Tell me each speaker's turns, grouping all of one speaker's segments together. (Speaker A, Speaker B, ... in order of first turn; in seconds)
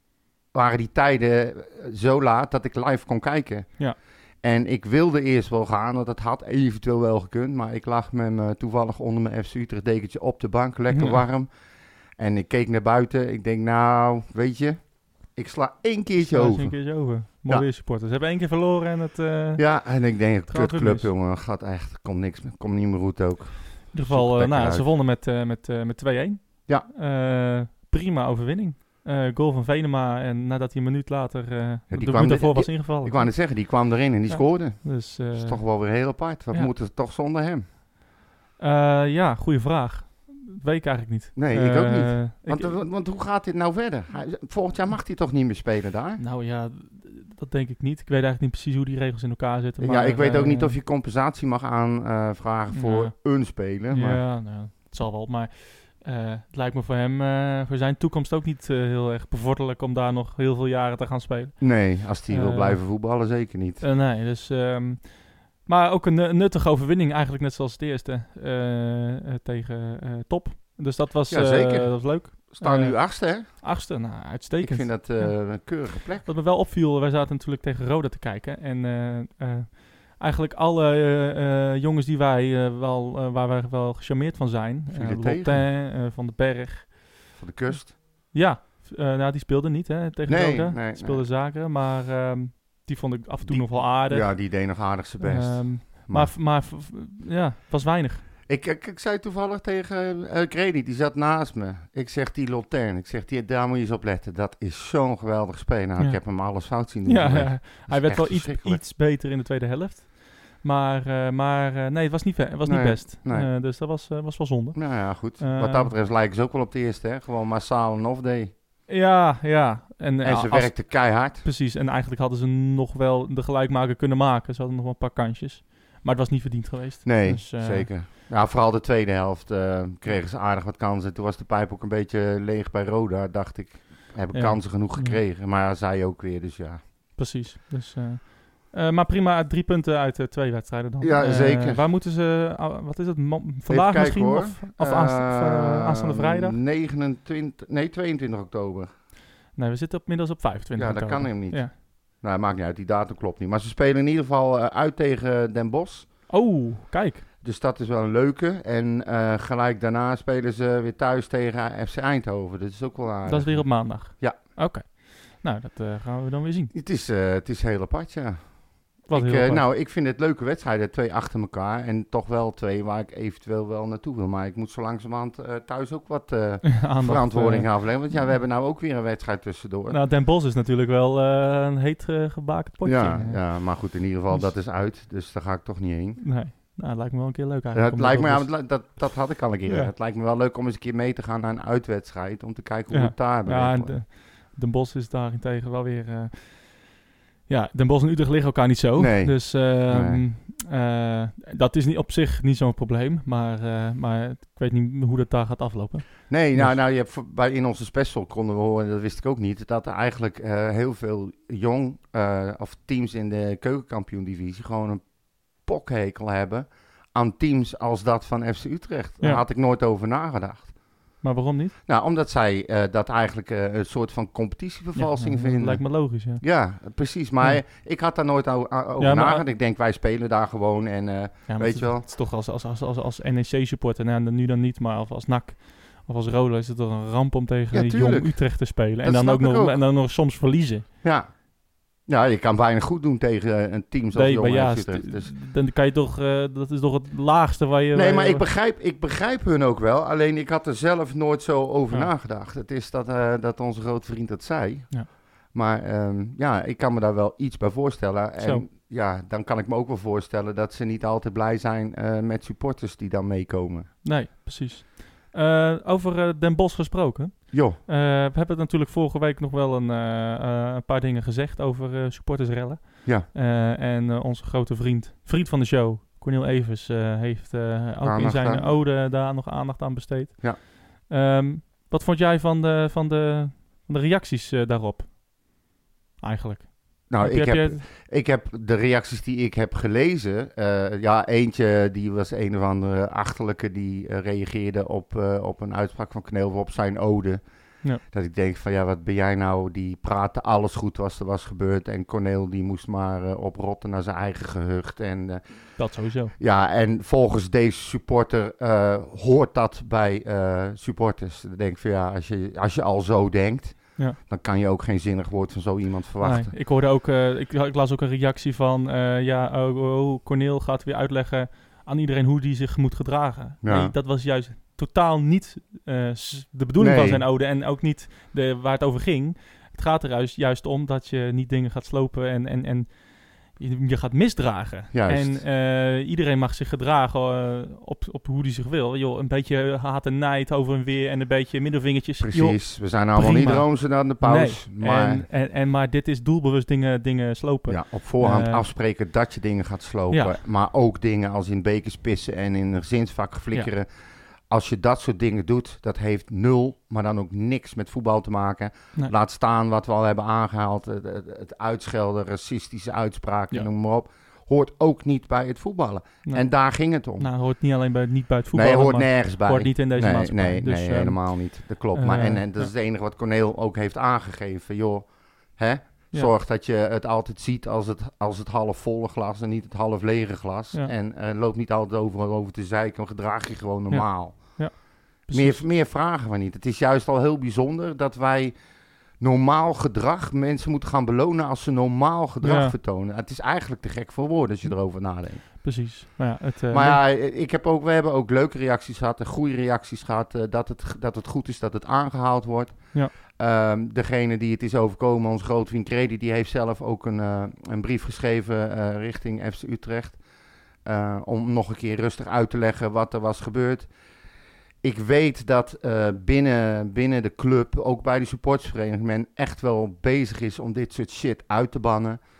Speaker A: 0.5-3.8, 4.4-11.5, 12.2-17.7, 19.6-24.9, 31.9-37.6, 41.4-46.2, 49.8-54.2, 61.6-63.8, 71.3-73.7, 74.6-76.3, 84.9-85.7, 87.4-88.0, 90.3-91.2, 93.5-96.3, 98.5-108.8, 112.6-113.5, 114.7-118.5, 120.2-121.4, 127.0-136.8, 141.0-141.8, 143.7-148.9, 150.8-156.1, 157.4-164.4, 166.7-180.0, 182.8-186.2, 187.7-194.0, 199.0-200.2, 206.3-220.7, 221.9-232.0, 237.7-239.8, 241.0-241.4, 242.0-245.3, 247.9-263.9, 267.5-267.8, 278.0-278.7, 287.1-297.4, 298.1-305.4, 306.4-316.5, 323.6-323.9, 326.8-327.2, 334.9-335.4, 342.2-345.3, 347.7-353.9, 354.5-367.3, 368.5-388.6, 389.2-395.5, 396.7-410.2, 410.8-413.9, 414.8-422.2
Speaker B: 10.9-11.2, 16.2-19.6, 20.5-21.1, 23.9-36.7, 38.6-42.8, 46.2-50.8, 52.7-62.8, 63.8-94.6, 95.2-98.2, 106.0-115.9, 118.9-127.9, 134.3-135.2, 137.2-146.6, 149.5-151.7, 156.3-157.2, 163.2-166.7, 169.1-169.7, 176.7-178.4, 179.9-184.5, 186.2-188.8, 189.7-189.9, 192.9-196.9, 197.5-206.8, 221.2-221.8, 224.9-226.4, 229.0-229.4, 231.5-240.9, 244.1-248.4, 258.4-258.6, 264.0-285.1, 286.2-287.8, 305.8-306.3, 316.2-348.6, 350.1-350.4, 367.2-372.7, 383.9-385.6, 392.4-392.7, 395.5-397.0